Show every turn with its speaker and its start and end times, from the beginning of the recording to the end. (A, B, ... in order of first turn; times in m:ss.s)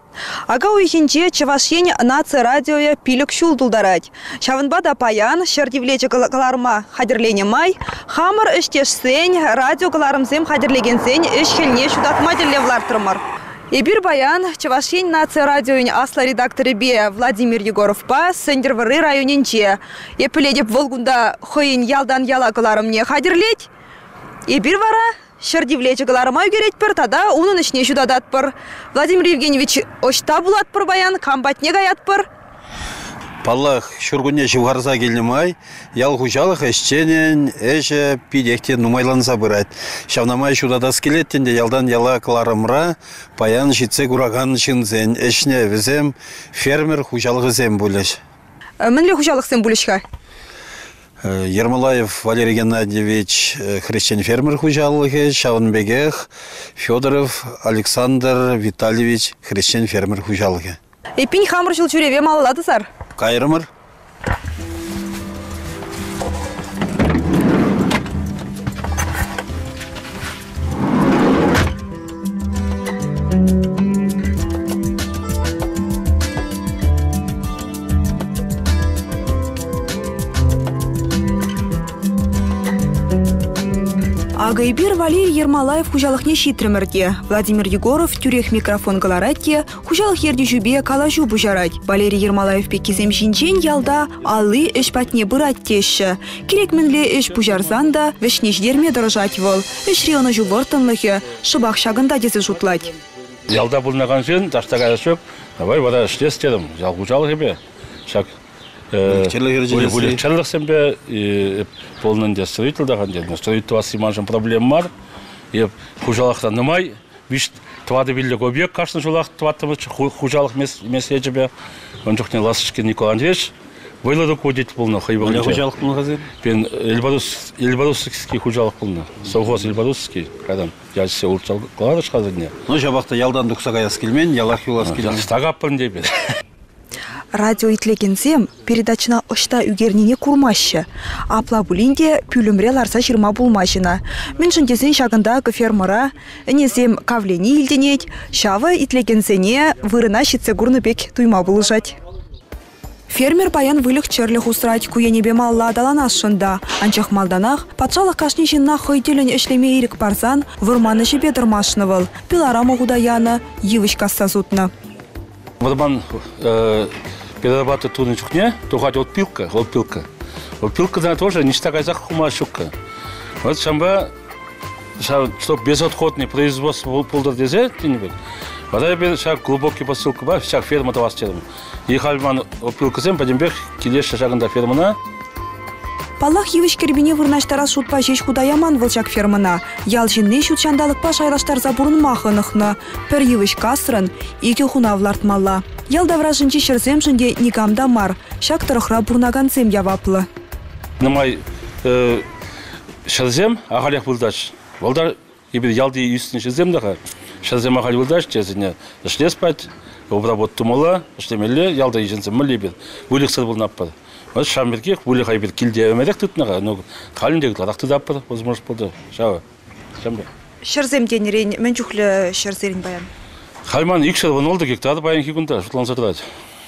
0:00.5-0:23.7 A
0:24.5-0:32.3 A
0:33.4-0:48.2 B
0:48.8-0:50.0 A
0:51.2-1:00.8 B
1:01.2-1:02.9 A
1:03.2-1:03.7 B
1:24.4-1:42.9 A
1:43.5-1:48.3 C
1:48.9-1:54.9 C
1:49.1-1:50.2 B
1:55.5-2:01.5 C
2:02.0-2:05.6 C
2:05.2-2:06.3 B
2:06.4-2:12.5 C
2:12.6-2:15.3 B
2:14.8-2:16.2 C
2:17.3-2:32.0 A
2:33.1-2:44.7 A
2:45.6-2:50.1 C
2:50.6-2:52.7 C
2:53.4-2:54.1 C
2:55.0-2:58.1 C
2:58.7-3:04.9 C
3:06.2-3:20.3 A
3:21.0-3:22.2 C
3:23.0-3:39.4 C
3:40.0-3:40.3 C
3:40.6-3:43.1 A
3:43.6-3:46.2 C